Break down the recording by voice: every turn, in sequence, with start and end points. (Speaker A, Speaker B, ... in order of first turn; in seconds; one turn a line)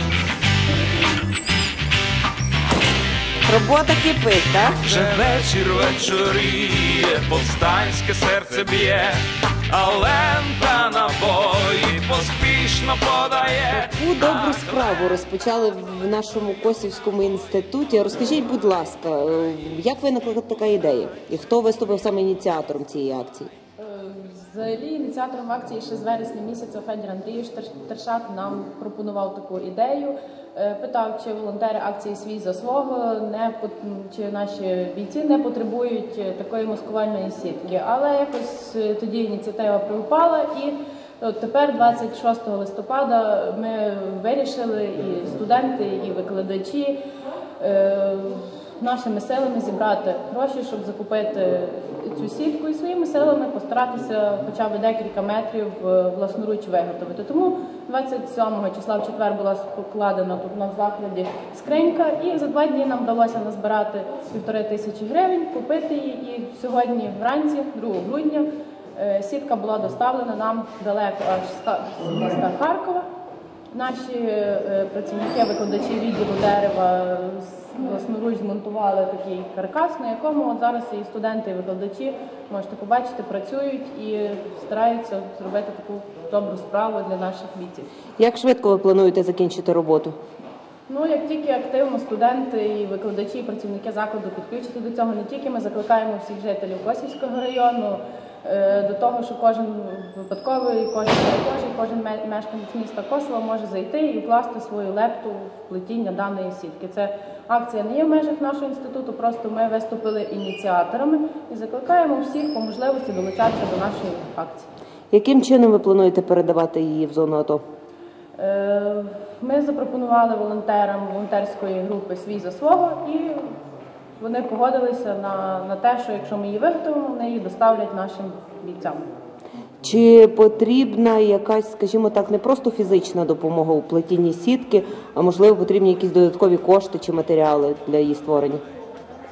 Speaker A: 3.4-5.1
Speaker B: 4.8-13.8
Speaker A: 13.7-23.5
Speaker C: 23.8-47.0
Speaker C: 47.6-73.0
Speaker C: 73.7-87.9
Speaker A: 88.2-90.2
Speaker C: 90.9-114.7
Speaker A: 115.1-117.6
Speaker C: 118.3-123.5
Speaker C: 124.2-129.1
Speaker A: 129.8-138.6